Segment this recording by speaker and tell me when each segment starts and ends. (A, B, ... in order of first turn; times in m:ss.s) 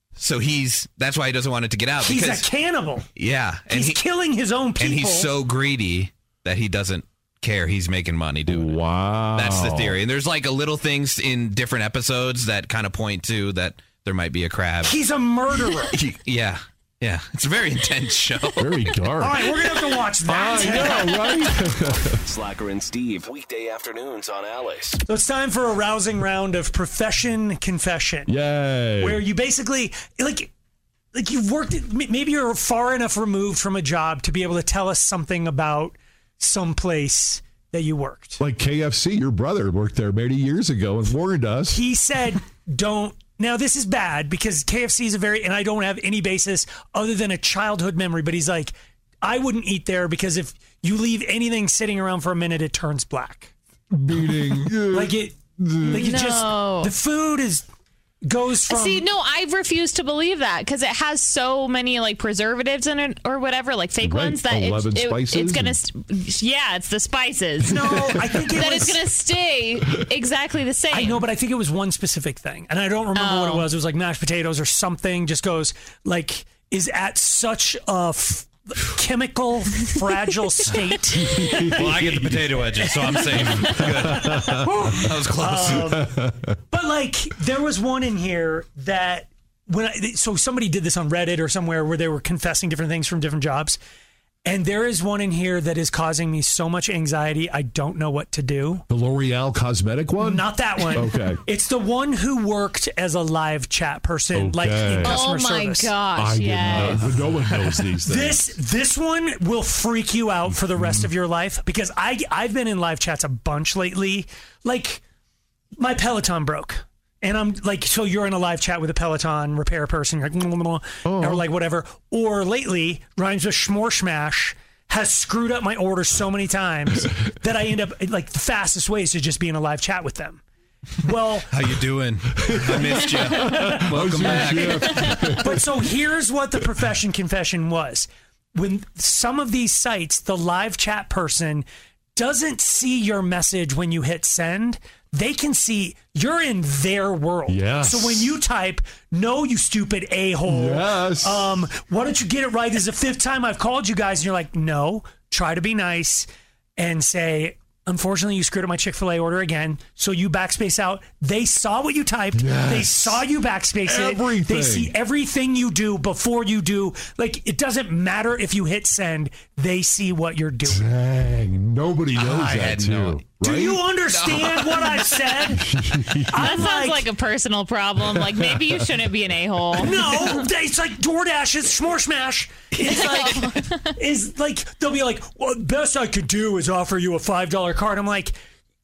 0:00.2-0:02.5 A
0:02.0-0:03.1 B
0:03.2-0:04.0 A
0:03.7-0:05.3 B
0:04.8-0:08.8 A
0:08.5-0:10.0 C
0:09.3-0:15.0 A
0:14.8-0:16.0 B
0:15.9-0:18.9 A
0:18.6-0:19.5 C
0:19.2-0:21.3 B
0:20.2-0:22.2 C
0:22.2-0:25.0 D
0:25.1-0:28.3 B
0:28.3-0:29.2 C
0:29.0-0:30.5 B
0:31.1-0:38.4 B
0:38.4-0:41.8 C
0:41.7-0:53.5 B
0:53.9-0:56.1 C
0:54.9-0:57.7 B
0:55.8-0:56.9 E
0:58.2-0:59.1 B
0:58.7-1:11.2 E
1:04.0-1:05.8 C
1:07.7-1:09.0 B
1:07.9-1:08.4 C
1:10.9-1:21.6 B
1:13.1-1:13.7 E
1:21.2-1:22.6 C
1:21.7-1:26.0 A
1:23.4-1:25.0 C
1:24.1-1:26.1 B
1:25.5-1:26.6 C
1:26.7-1:33.8 B
1:34.4-1:38.8 B
1:38.9-1:41.4 C
1:40.2-1:45.9 B
1:44.3-1:45.2 C
1:45.0-1:47.1 E
1:46.2-1:48.6 C
1:46.8-1:47.0 A
1:48.0-1:55.0 B
1:50.5-1:51.1 C
1:55.8-2:10.4 B
2:01.0-2:01.5 C
2:11.0-2:11.5 B
2:11.5-2:15.0 A
2:12.4-2:15.8 C
2:13.4-2:50.8 B
2:27.5-2:28.4 C
2:30.5-2:31.7 C
2:42.3-2:43.2 C
2:43.9-2:44.9 C
2:50.6-2:53.9 C
2:52.2-2:53.2 A
2:53.4-2:55.7 B
2:54.1-2:55.1 A
2:55.5-2:56.5 C
2:56.3-2:57.1 B
2:56.4-3:00.4 E
2:58.0-2:59.0 C
2:59.8-3:08.4 B
3:02.9-3:03.7 E